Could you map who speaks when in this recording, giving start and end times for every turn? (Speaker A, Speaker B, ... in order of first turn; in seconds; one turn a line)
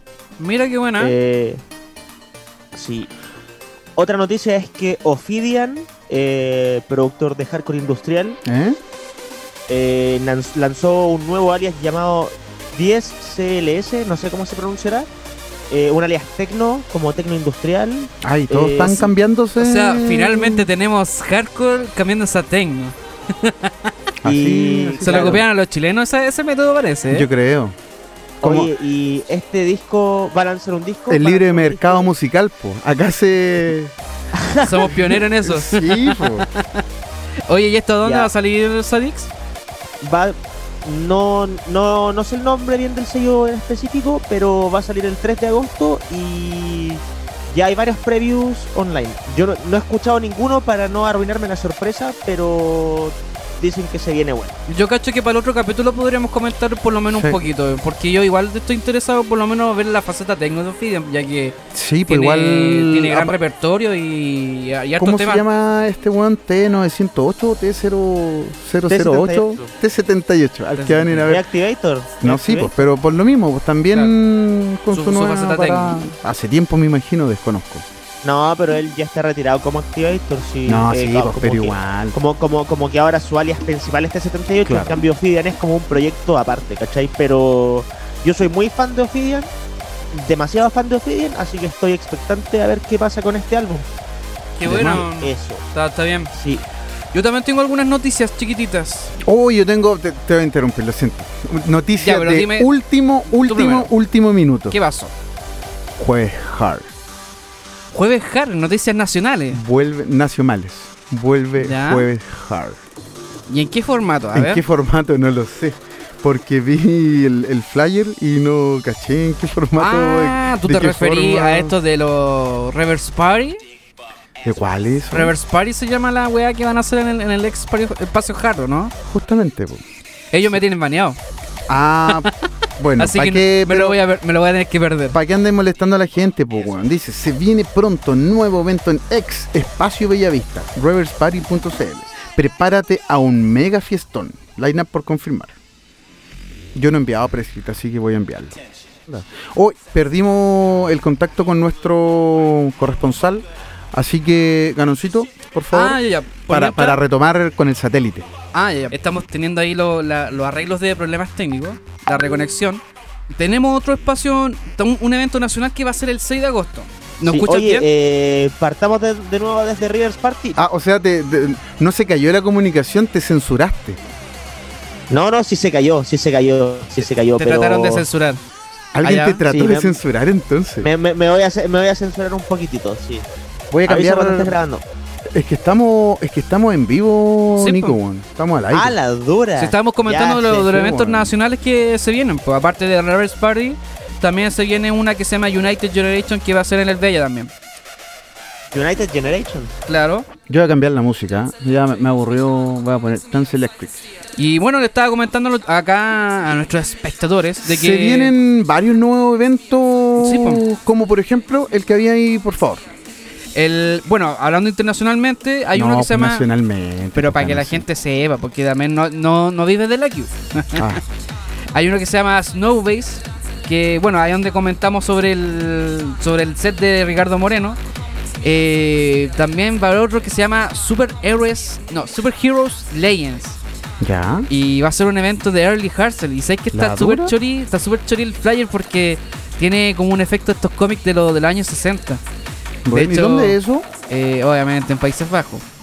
Speaker A: 0.4-1.1
Speaker B: 1.0-1.6
Speaker B: 2.7-3.1
Speaker B: 4.0-8.4
Speaker C: 8.4-8.8
Speaker B: 9.7-15.1
Speaker B: 15.7-19.1
Speaker C: 18.2-20.7
Speaker A: 19.6-23.9
Speaker C: 24.2-25.4
Speaker B: 24.2-25.4
Speaker A: 25.0-27.3
Speaker C: 27.1-27.8
Speaker C: 28.4-28.7
Speaker B: 28.4-32.1
Speaker C: 31.1-33.9
Speaker B: 34.4-35.0
Speaker A: 34.6-36.8
Speaker C: 35.4-36.5
Speaker A: 37.5-39.3
Speaker B: 38.0-38.3
Speaker B: 40.0-54.6
Speaker A: 54.7-65.5
Speaker C: 57.1-57.4
Speaker C: 61.7-63.4
Speaker C: 65.0-71.5
Speaker B: 68.9-69.7
Speaker A: 70.7-71.3
Speaker B: 71.3-72.8
Speaker C: 72.2-77.9
Speaker A: 74.9-76.1
Speaker B: 78.2-89.5
Speaker C: 80.7-82.2
Speaker C: 84.7-85.0
Speaker B: 90.1-93.9
Speaker A: 94.6-96.3
Speaker C: 94.7-95.1
Speaker B: 94.7-95.6
Speaker B: 96.3-96.6
Speaker A: 97.1-99.2
Speaker C: 99.2-104.8
Speaker A: 102.0-102.7
Speaker A: 103.4-103.9
Speaker A: 104.7-105.1
Speaker C: 106.0-106.9
Speaker A: 107.9-109.6
Speaker C: 109.5-112.8
Speaker A: 111.6-112.1
Speaker A: 113.5-114.6
Speaker C: 114.3-121.8
Speaker A: 119.8-123.6
Speaker C: 124.4-125.3
Speaker A: 125.1-128.9
Speaker C: 129.0-129.8
Speaker A: 130.3-131.2
Speaker C: 131.7-134.0
Speaker A: 133.0-135.2
Speaker C: 135.1-145.6
Speaker C: 146.7-148.6
Speaker C: 149.3-158.3
Speaker A: 155.7-157.0
Speaker A: 158.5-167.9
Speaker B: 167.2-170.6
Speaker C: 170.6-174.0
Speaker B: 175.1-178.1
Speaker A: 177.4-178.4
Speaker C: 178.9-180.9
Speaker A: 179.0-179.4
Speaker B: 179.5-180.0
Speaker B: 180.8-183.3
Speaker C: 183.7-184.6
Speaker B: 183.9-184.8
Speaker C: 185.3-189.0
Speaker A: 187.6-188.0
Speaker B: 188.7-190.8
Speaker A: 189.6-197.5
Speaker C: 190.7-191.3
Speaker B: 198.7-199.7
Speaker A: 199.9-200.3
Speaker C: 200.5-204.0
Speaker A: 204.4-208.3
Speaker C: 207.6-212.8
Speaker A: 210.2-210.6
Speaker A: 213.6-216.5
Speaker C: 215.7-217.9
Speaker A: 217.2-221.0
Speaker C: 220.8-221.0
Speaker A: 221.7-227.8
Speaker A: 228.4-233.6
Speaker C: 234.0-234.5
Speaker A: 234.5-242.2
Speaker C: 236.7-237.3
Speaker C: 242.8-243.9
Speaker A: 242.9-245.7